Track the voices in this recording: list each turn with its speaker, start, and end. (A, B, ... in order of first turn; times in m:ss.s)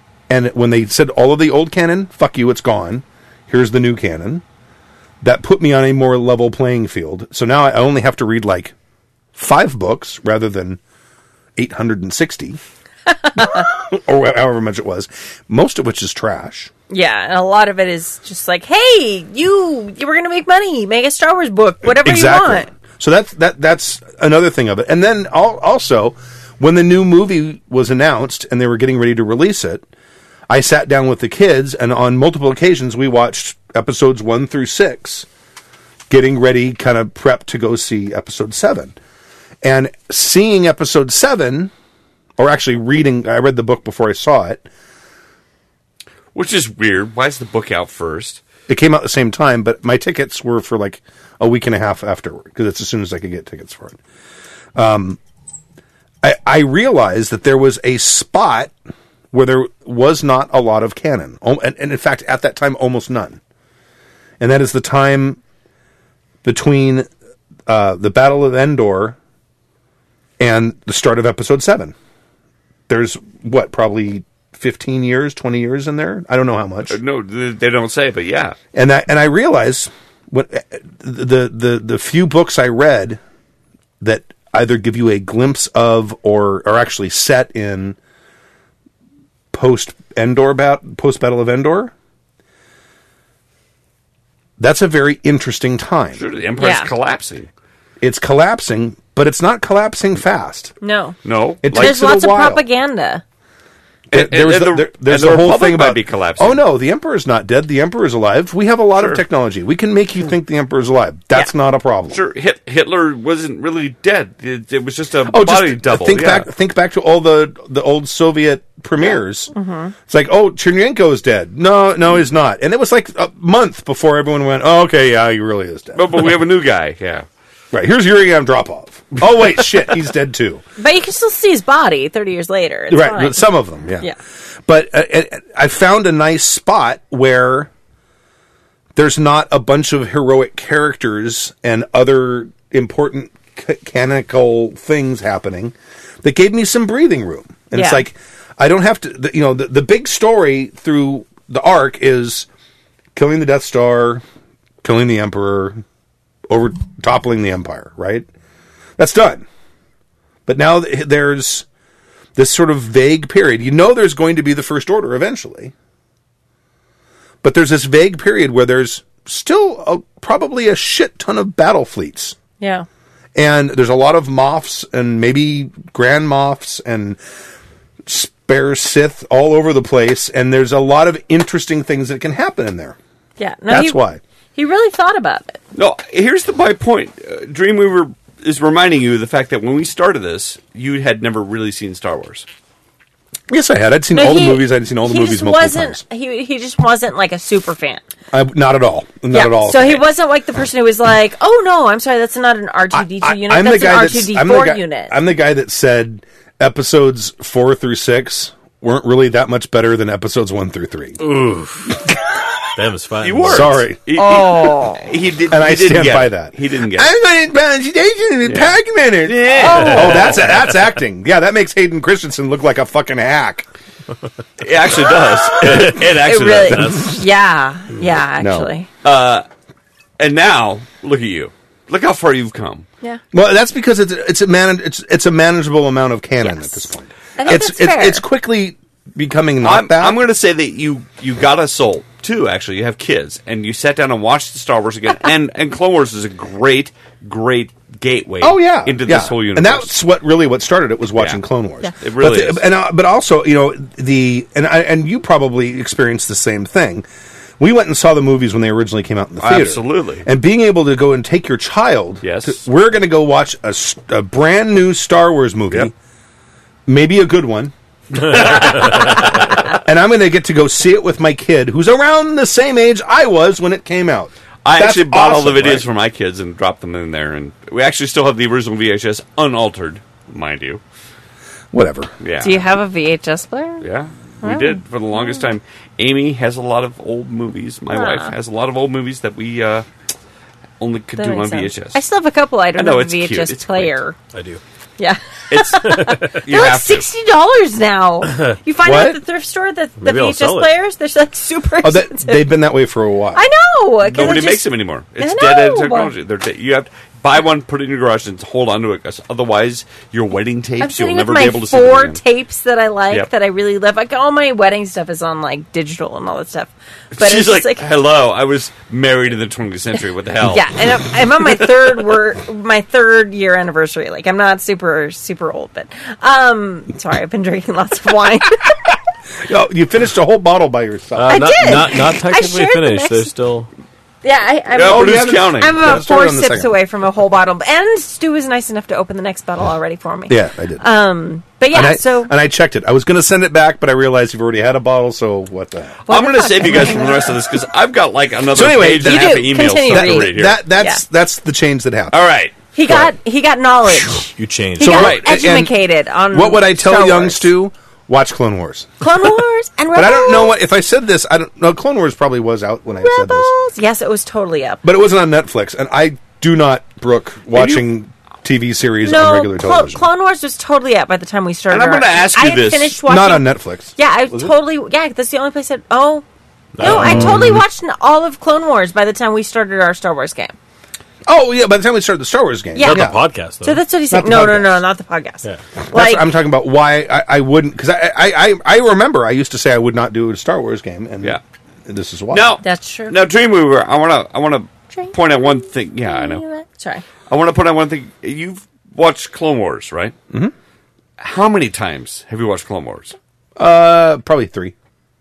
0:00.3-0:04.4 A
0:05.2-0:08.7 A
0:09.4-0:10.8 A
0:11.6-0:12.6 A
0:13.3-0:13.6 B
0:13.4-0:16.7 A
0:16.9-0:22.7 B
0:21.8-0:29.8 A
0:30.5-0:35.3 A
0:36.1-0:39.0 A
0:39.6-0:41.7 A
0:42.4-0:44.7 A
0:46.3-0:48.4 C
0:48.7-0:54.0 A
0:54.8-0:55.2 A
0:56.2-0:58.7 A
0:59.3-1:03.4 A
1:04.4-1:05.4 A
1:06.4-1:07.1 A
1:07.7-1:09.2 A
1:10.4-1:11.9 A
1:12.9-1:17.0 A
1:16.9-1:18.6 C
1:18.7-1:23.2 A
1:24.0-1:28.0 A
1:29.5-1:31.9 A
1:34.6-1:36.2 A
1:36.2-1:37.5 C
1:36.6-1:36.9 B
1:38.0-1:40.8 A
1:40.8-1:41.2 B
1:41.2-1:42.0 C
1:41.6-1:42.6 A
1:41.7-1:43.2 B
1:44.1-1:46.6 C
1:44.1-1:52.2 A
1:49.0-1:49.2 C
1:52.1-1:56.5 C
1:55.3-1:59.5 A
1:59.5-1:59.9 B
2:00.1-2:06.4 A
2:06.0-2:07.3 C
2:07.7-2:10.6 A
2:10.8-2:13.5 B
2:12.9-2:14.1 A
2:14.7-2:17.7 A
2:19.0-2:32.5 A
2:27.7-2:28.0 B
2:33.2-2:34.2 A
2:34.8-2:35.8 A
2:36.5-2:38.3 A
2:39.0-2:39.4 A
2:40.5-2:41.7 A
2:42.4-2:45.7 A
2:47.4-2:52.4 A
2:52.6-2:52.9 B
2:53.4-2:57.2 A
2:58.1-3:03.0 A
3:03.4-3:04.0 B
3:03.7-3:04.2 A
3:04.6-3:05.6 B
3:05.7-3:12.5 C
3:13.5-3:16.0 A
3:14.1-3:18.0 B
3:18.3-3:20.0 A
3:19.3-3:25.2 B
3:22.9-3:31.2 A
3:31.2-3:32.0 D
3:32.8-3:33.8 D
3:33.2-3:37.1 C
3:33.4-3:34.0 A
3:34.2-3:35.0 B
3:35.5-3:43.7 A
3:38.4-3:40.5 C
3:39.6-3:40.3 B
3:44.6-3:46.9 C
3:45.7-3:46.0 D
3:45.9-3:48.9 B
3:46.7-3:47.2 D
3:48.4-3:48.7 A
3:49.0-3:49.5 C
3:50.2-3:52.9 C
3:53.3-4:00.2 A
3:56.4-3:58.2 B
3:59.6-4:09.9 C
4:08.4-4:17.1 A
4:12.0-4:12.6 C
4:17.6-4:25.9 A
4:19.4-4:20.3 C
4:22.2-4:22.6 C
4:26.9-4:35.8 A
4:28.4-4:28.7 C
4:34.6-4:40.8 C
4:41.7-4:42.1 A
4:42.2-4:42.6 C
4:42.4-4:43.9 B
4:43.8-4:49.9 C
4:44.4-4:45.5 B
4:47.9-4:48.3 B
4:50.8-4:52.0 C
4:51.2-4:54.2 B
4:52.8-4:54.0 C
4:54.3-4:54.6 D
4:55.0-5:02.5 B
4:55.5-4:57.1 C
4:55.9-4:56.4 D
4:58.8-4:59.2 A
5:00.0-5:00.7 D
5:01.8-5:03.4 A
5:03.3-5:06.1 B
5:04.1-5:12.2 C
5:10.8-5:17.8 B
5:17.1-5:20.7 C
5:20.4-5:28.8 B
5:29.4-5:31.6 A
5:31.2-5:33.7 D
5:31.3-5:33.3 B
5:34.2-5:42.3 B
5:34.7-5:35.8 C
5:34.8-5:36.8 A
5:40.3-5:40.8 A
5:41.7-5:46.0 A
5:46.1-5:47.3 B
5:46.1-5:50.6 C
5:48.5-5:52.2 A
5:49.0-5:51.0 B
5:52.1-5:52.6 C
5:52.7-5:57.5 B
5:52.9-5:53.1 A
5:54.4-5:55.1 D
5:54.8-5:55.7 A
5:54.9-5:55.3 C
5:56.3-5:58.9 A
5:59.0-6:00.5 B
5:59.9-6:03.5 A
6:03.0-6:04.8 B
6:04.8-6:10.1 A
6:07.5-6:07.8 C
6:09.0-6:16.2 B
6:11.7-6:13.0 C
6:13.0-6:14.6 A
6:16.8-6:17.6 D
6:16.8-6:20.6 B
6:16.8-6:17.3 A
6:21.3-6:23.2 A
6:22.8-6:26.3 B
6:22.8-6:23.8 D
6:24.1-6:24.8 A
6:25.9-6:32.6 A
6:32.3-6:36.4 C
6:32.6-6:33.2 B
6:34.9-6:37.0 B
6:37.3-6:40.2 C
6:41.2-6:43.2 C
6:43.6-6:44.7 A